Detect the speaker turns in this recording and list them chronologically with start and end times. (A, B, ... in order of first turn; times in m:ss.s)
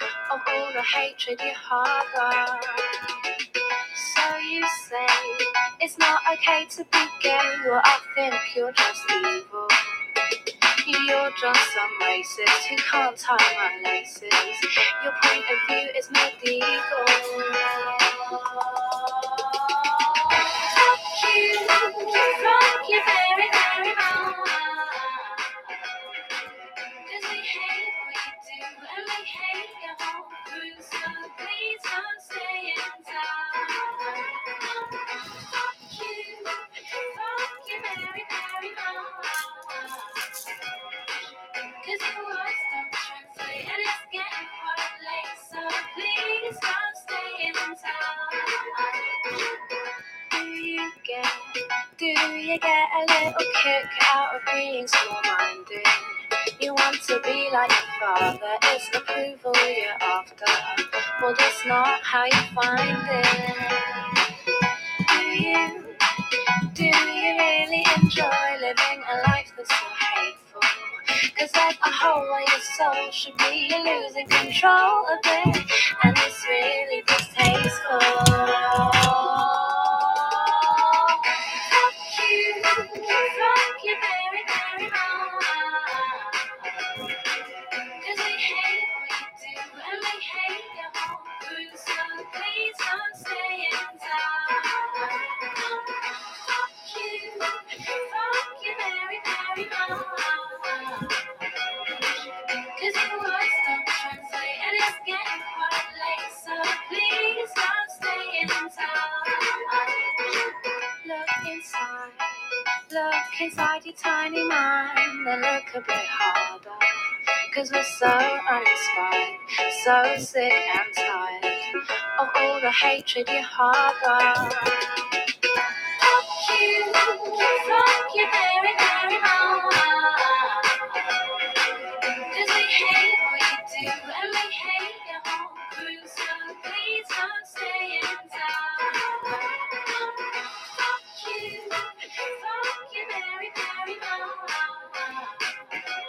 0:00.3-0:03.0 A
0:03.9-0:09.8 A
0:10.8-0:25.9 A
0:27.0-0:40.4 A
0:41.1-0:49.7 A
0:50.3-1:04.1 A
1:05.0-1:06.0 A
1:06.7-1:26.8 A
1:28.0-2:04.8 A
2:06.0-2:11.2 A
2:12.3-2:25.7 A